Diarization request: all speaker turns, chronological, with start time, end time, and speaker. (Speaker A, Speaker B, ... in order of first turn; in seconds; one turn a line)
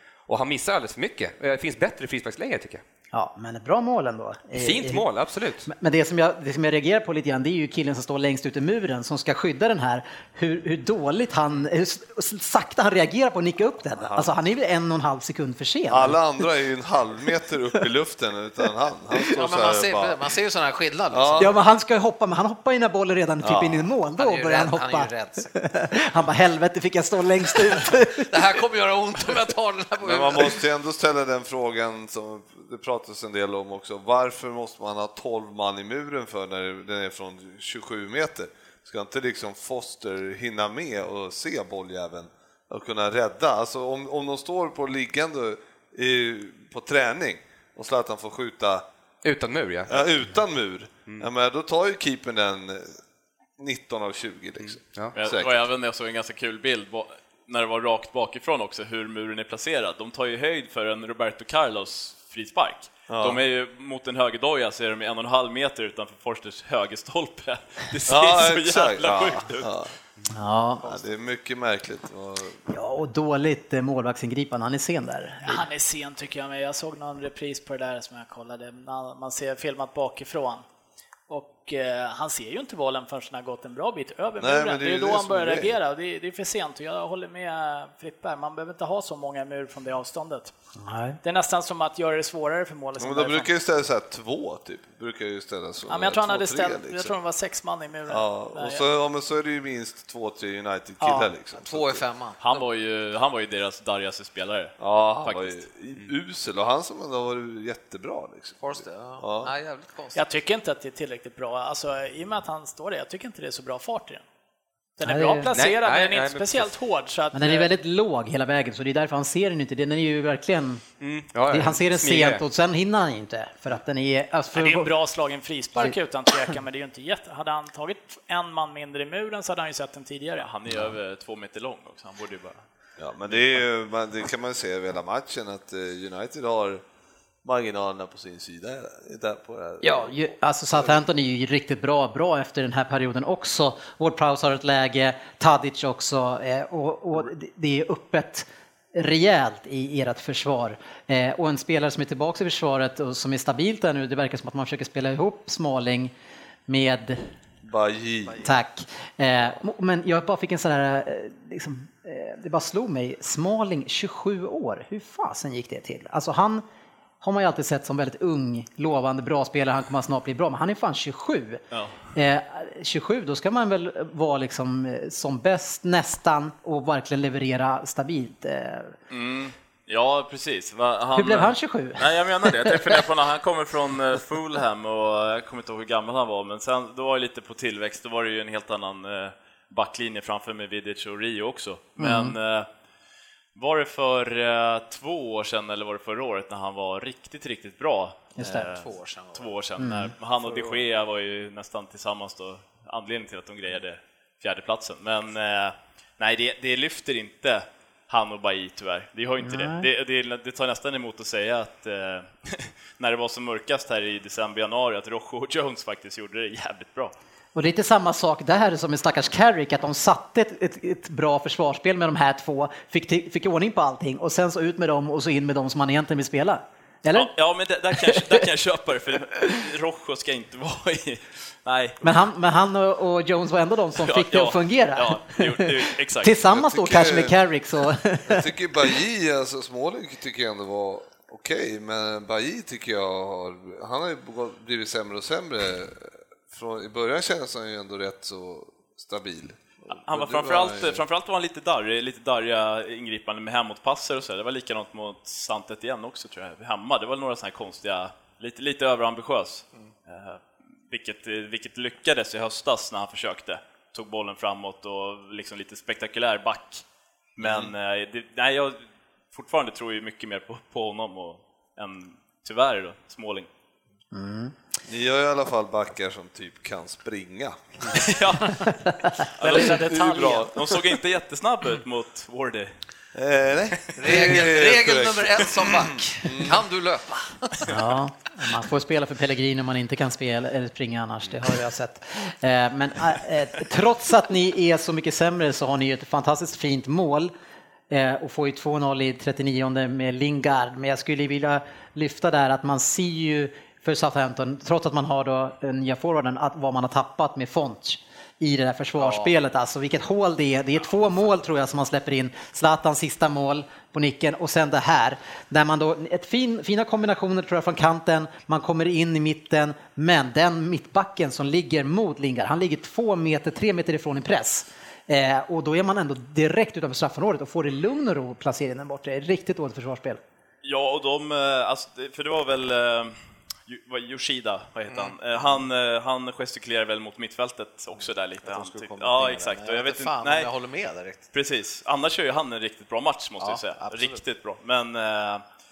Speaker A: 0.3-2.8
Speaker B: 3.1-5.0
Speaker A: 4.5-5.7
Speaker B: 5.7-16.2
Speaker C: 14.0-14.3
Speaker C: 15.9-20.2
Speaker D: 19.3-21.5
Speaker C: 21.1-21.6
Speaker B: 21.4-28.4
Speaker C: 23.4-23.9
Speaker D: 24.2-25.5
Speaker D: 28.3-30.6
Speaker C: 30.0-48.8
Speaker A: 49.2-50.1
Speaker C: 49.9-53.0
Speaker C: 53.6-55.6
Speaker A: 54.6-55.1
Speaker E: 55.2-69.7
Speaker C: 63.1-63.4
Speaker C: 68.1-69.9
Speaker B: 70.3-71.0
Speaker C: 70.8-72.6
Speaker B: 72.7-75.7
Speaker F: 75.5-80.6
Speaker F: 81.3-90.5
Speaker C: 84.4-85.7
Speaker B: 90.8-91.2
Speaker F: 91.2-93.5
Speaker C: 93.0-97.1
Speaker F: 95.9-98.9
Speaker C: 98.1-102.0
Speaker F: 101.0-101.3
Speaker D: 101.6-102.6
Speaker E: 102.4-105.6
Speaker C: 104.8-109.5
Speaker D: 108.6-110.2
Speaker F: 110.2-114.2
Speaker F: 115.0-117.7
Speaker B: 115.0-115.5
Speaker A: 115.5-116.7
Speaker B: 117.3-120.8
Speaker A: 121.0-122.4
Speaker B: 121.5-124.9
Speaker F: 124.5-130.5
Speaker E: 130.4-132.6
Speaker C: 133.0-136.8
Speaker C: 137.4-140.2
Speaker B: 139.8-156.1
Speaker B: 156.7-157.3
Speaker C: 157.6-158.5
Speaker B: 158.4-166.6
Speaker B: 167.2-171.6
Speaker B: 172.2-178.9
Speaker E: 179.1-192.7
Speaker B: 181.2-183.0
Speaker B: 192.0-192.3
Speaker E: 193.6-217.1
Speaker B: 198.4-198.7
Speaker D: 198.4-199.5
Speaker B: 199.8-200.1
Speaker D: 200.5-200.8
Speaker B: 209.4-209.9
Speaker B: 217.6-227.3
Speaker E: 227.1-232.0
Speaker B: 227.9-228.4
Speaker B: 232.0-238.5
Speaker E: 234.0-236.4
Speaker C: 236.5-237.4
Speaker C: 238.3-251.0
Speaker E: 249.9-266.8
Speaker E: 267.4-268.8
Speaker C: 267.4-267.7
Speaker E: 269.3-273.5
Speaker B: 274.1-274.6
Speaker C: 274.9-278.1
Speaker E: 277.9-278.8
Speaker B: 278.7-279.2
Speaker E: 279.4-282.7
Speaker F: 279.4-280.5
Speaker C: 279.5-280.6
Speaker C: 283.1-286.6
Speaker D: 283.9-287.7
Speaker B: 287.7-297.3
Speaker B: 297.9-330.2
Speaker D: 309.0-309.3
Speaker E: 330.6-333.1
Speaker E: 333.7-340.5
Speaker D: 338.4-341.2
Speaker E: 341.3-345.4
Speaker D: 343.4-344.2